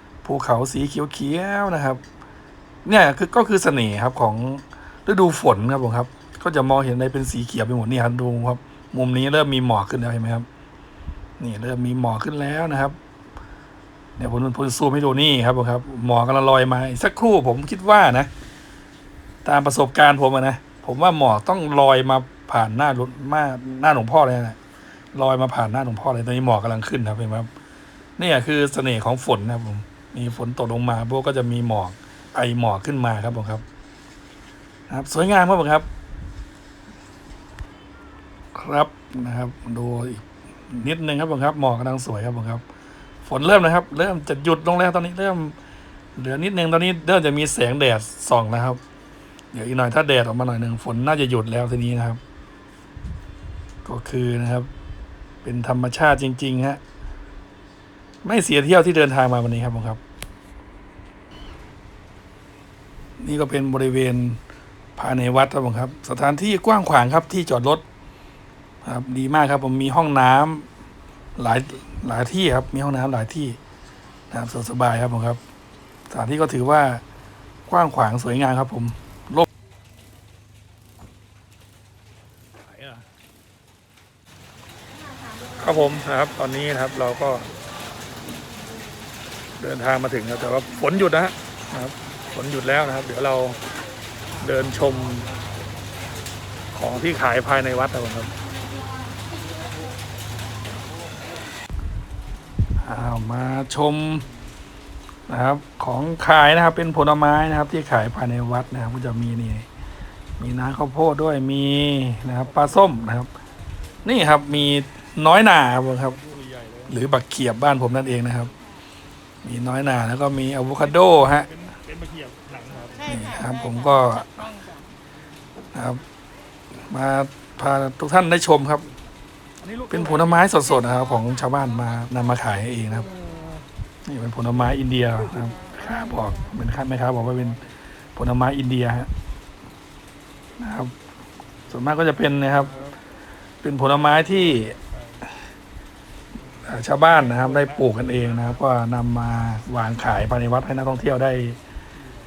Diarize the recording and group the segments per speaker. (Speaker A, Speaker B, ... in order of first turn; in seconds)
Speaker A: 0.2-2.0, 2.9-10.5, 11.4-13.0, 14.2-18.3, 19.4-24.6, 25.1-27.5, 28.2-33.6, 34.9-35.9, 38.5-42.6, 43.2-45.5, 46.2-48.8, 49.5-52.2, 53.9-54.7, 55.4-56.8, 58.2-60.0, 63.2-64.4, 65.0-67.8, 68.8-70.7, 71.4-73.6, 74.3-75.4, 76.1-77.0, 77.7-79.5, 85.6-87.5, 89.6-93.6, 94.4-95.3, 96.7-98.3, 102.8-104.2, 105.3-109.7, 110.4-113.3, 114.0-116.2, 116.9-118.5, 119.4-121.5, 123.0-124.4, 125.7-126.0, 126.9-128.9, 129.9-133.1, 134.1-137.6, 138.2-139.1, 140.6-140.9, 141.7-142.7, 143.6-144.8, 146.6-151.6
Speaker B: 116.2-116.9, 121.5-123.0, 129.6-130.5